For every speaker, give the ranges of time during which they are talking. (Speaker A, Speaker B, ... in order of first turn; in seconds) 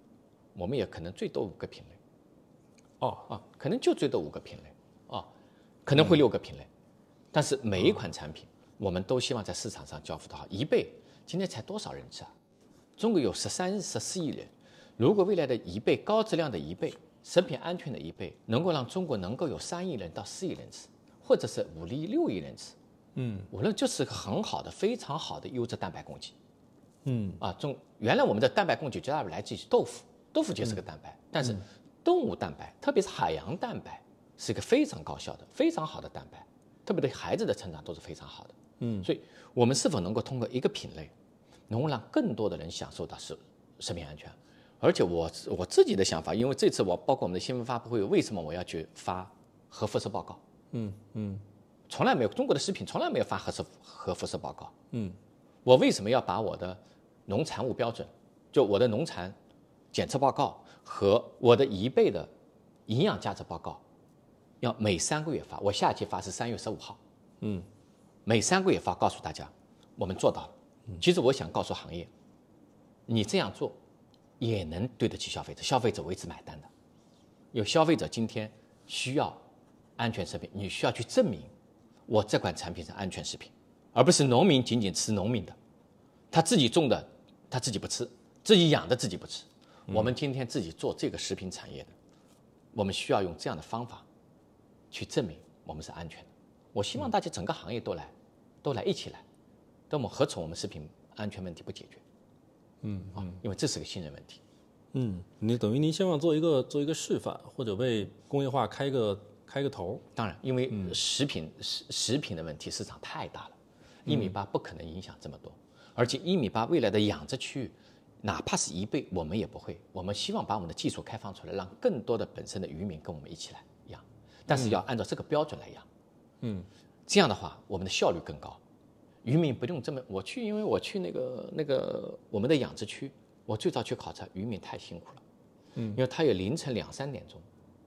Speaker A: 0.5-2.0, 3.3-5.3, 5.8-6.7, 7.3-12.3, 13.0-22.7, 23.5-26.3, 27.4-41.1, 41.7-50.4, 51.9-54.7, 55.6-59.4, 59.9-62.3, 62.9-63.8, 64.6-67.0, 68.2-72.1, 73.1-73.8, 74.4-76.7, 77.5-79.4, 80.0-81.5, 82.1-85.5, 86.3-91.9, 92.7-94.0, 94.9-98.1, 98.6-99.2, 99.9-102.0, 103.1-104.4, 110.2-113.5, 114.0-125.8, 127.1-128.6, 129.2-135.2, 135.9-137.4
Speaker B: 3.0-3.3, 23.1-23.5, 27.0-27.4, 38.8-39.1, 50.7-51.4, 54.9-55.2, 67.4-67.7, 102.8-103.3, 104.9-110.0, 114.0-114.3, 124.5-124.8, 126.4-126.7, 135.8-136.0